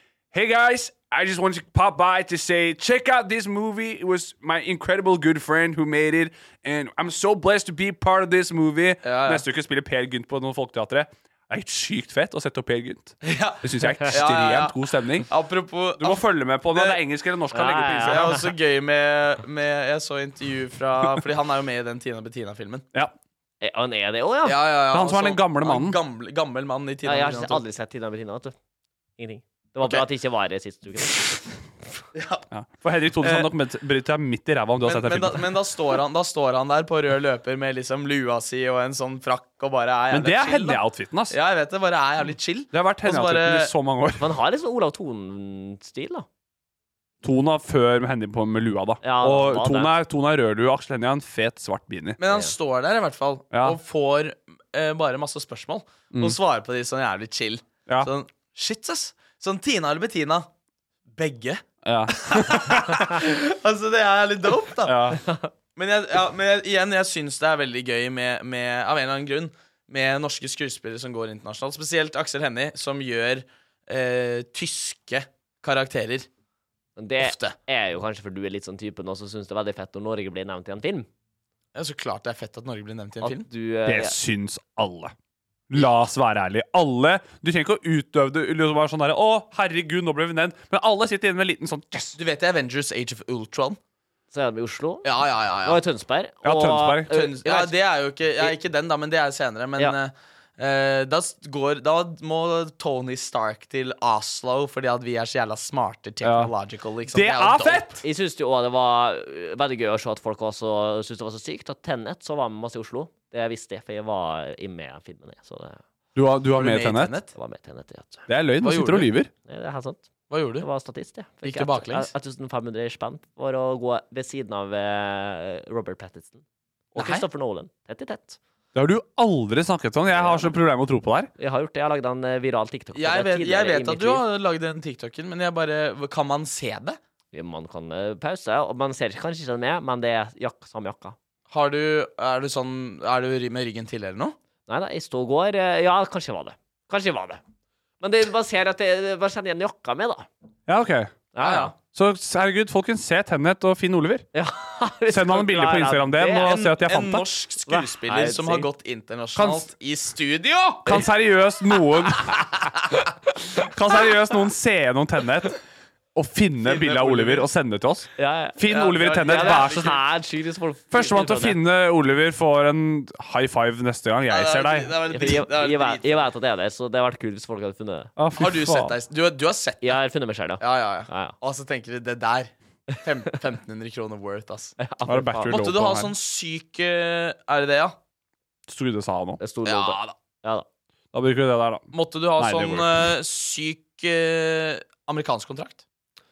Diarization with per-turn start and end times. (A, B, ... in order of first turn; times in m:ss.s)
0:00.3-0:15.3 A
0:09.0-0:09.4 B
0:13.2-0:17.0 B
0:16.0-0:18.4 A
0:17.5-0:18.4 C
0:18.0-0:22.8 B
0:23.6-0:24.6 C
0:24.4-0:27.6 B
0:24.9-0:26.0 A
0:27.0-0:28.5 C
0:29.2-0:31.4 C
0:32.1-0:32.4 B
0:32.5-0:35.5 A
0:33.2-0:33.5 B
0:34.8-0:43.7 B
0:40.1-0:41.4 A
0:42.7-0:44.2 A
0:44.2-0:46.2 C
0:47.2-0:52.2 A
0:49.0-0:49.9 C
0:52.2-1:00.5 B
0:53.5-0:53.8 A
1:01.1-1:05.2 B
1:01.8-1:03.2 A
1:04.8-1:05.2 A
1:05.8-1:16.3 B
1:17.0-1:21.1 C
1:17.2-1:17.6 B
1:21.7-1:23.4 B
1:23.2-1:24.2 C
1:23.8-1:25.1 A
1:25.7-1:32.2 A
1:32.2-1:33.8 B
1:34.3-1:35.1 C
1:35.0-1:35.8 B
1:35.6-1:37.7 C
1:36.4-1:37.2 A
1:37.1-1:48.0 B
1:46.2-1:46.5 A
1:47.1-1:48.0 A
1:48.0-1:55.8 C
1:56.1-1:57.2 A
1:56.5-1:57.3 B
1:57.3-1:58.3 C
1:58.3-1:59.3 A
1:58.6-1:59.1 B
1:59.5-2:00.1 C
2:00.3-2:00.7 B
2:00.6-2:06.4 C
2:01.4-2:02.1 B
2:06.9-2:08.4 C
2:07.0-2:07.2 B
2:08.7-2:11.3 A
2:10.1-2:10.5 C
2:11.4-2:14.2 C
2:12.9-2:17.0 B
2:17.3-2:21.2 C
2:21.5-2:24.4 B
2:24.7-2:27.4 C
2:28.0-2:30.3 C
2:30.7-2:31.2 A
2:31.3-2:31.7 C
2:31.4-2:31.7 B
2:31.8-2:34.2 A
2:34.3-2:36.5 C
2:35.1-2:37.2 A
2:36.4-2:40.8 B
2:37.7-2:38.7 C
2:39.3-2:39.7 A
2:40.8-2:42.5 A
2:43.6-2:45.6 A
2:46.1-2:50.0 A
2:46.6-2:47.4 B
2:48.2-2:48.6 C
2:48.7-2:50.0 B
2:49.1-2:51.6 C
2:50.9-2:54.9 A
2:54.3-2:56.3 B
2:55.1-2:58.1 C
2:58.2-2:59.0 A
2:58.4-3:00.0 B
2:59.8-3:01.4 C
3:00.6-3:04.8 B
3:04.8-3:05.6 C
3:05.0-3:06.1 A
3:05.5-3:07.9 B
3:08.7-3:09.4 A
3:09.4-3:10.6 C
3:09.6-3:10.1 B
3:11.1-3:13.1 A
3:11.9-3:15.8 B